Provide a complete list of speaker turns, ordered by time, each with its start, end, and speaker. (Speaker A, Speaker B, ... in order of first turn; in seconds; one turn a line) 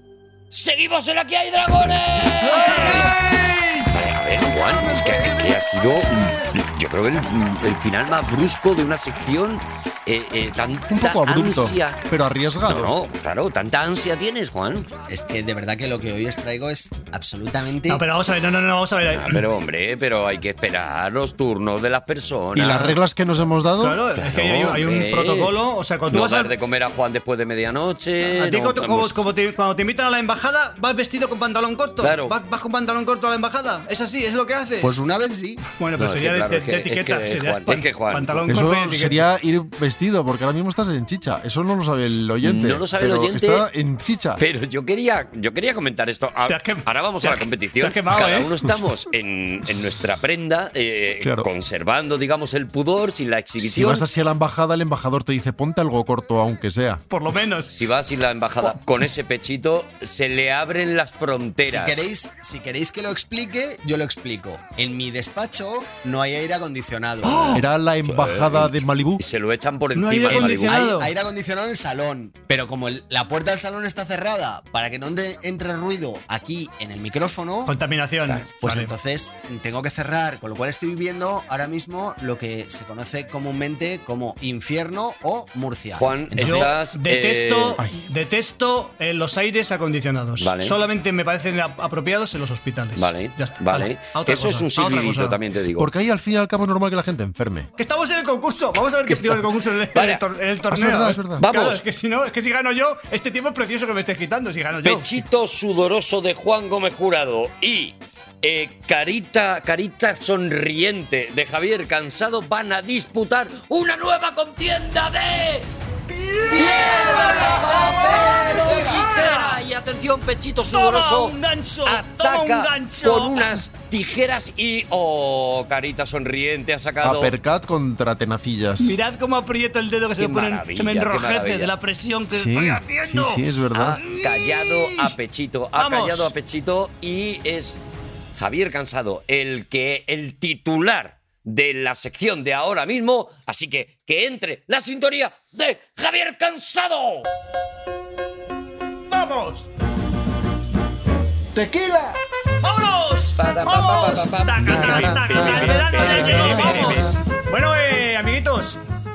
Speaker A: 0.5-3.2
Speaker B: 2.4-3.9
Speaker A: 3.9-12.0
Speaker C: 10.9-12.9
Speaker A: 12.6-14.9
Speaker D: 15.1-18.0
Speaker B: 17.9-19.4
Speaker A: 19.1-23.0
Speaker C: 22.5-24.0
Speaker B: 23.8-26.5
Speaker A: 24.2-25.5
Speaker A: 26.1-29.2
Speaker B: 28.4-34.9
Speaker A: 32.0-32.3
Speaker D: 34.8-35.6
Speaker B: 35.6-39.2
Speaker A: 36.0-38.5
Speaker C: 38.5-44.4
Speaker A: 42.4-43.7
Speaker A: 44.4-54.0
Speaker B: 46.5-48.5
Speaker C: 51.2-51.5
Speaker C: 53.6-57.0
Speaker B: 57.1-57.7
Speaker A: 57.7-62.1
Speaker D: 61.6-67.5
Speaker B: 67.2-67.6
Speaker C: 67.5-69.2
Speaker A: 68.0-70.9
Speaker B: 69.9-71.1
Speaker D: 70.3-77.8
Speaker B: 77.7-78.9
Speaker D: 78.6-86.8
Speaker A: 85.9-87.8
Speaker B: 86.4-95.4
Speaker A: 90.4-90.8
Speaker A: 93.0-95.9
Speaker C: 95.8-97.7
Speaker B: 97.8-105.2
Speaker A: 99.1-100.2
Speaker C: 100.7-101.4
Speaker A: 101.4-101.8
Speaker A: 104.8-115.7
Speaker B: 116.2-119.6
Speaker A: 116.5-127.3
Speaker D: 116.5-119.0
Speaker B: 120.7-123.6
Speaker C: 127.0-129.0
Speaker B: 128.8-133.4
Speaker A: 130.2-131.7
Speaker C: 132.3-134.0
Speaker A: 133.7-137.8
Speaker B: 134.0-135.1
Speaker B: 135.8-136.3
Speaker A: 138.3-147.3
Speaker B: 149.1-149.7
Speaker C: 151.5-152.2
Speaker B: 152.6-158.8
Speaker A: 153.4-157.1
Speaker C: 154.6-157.1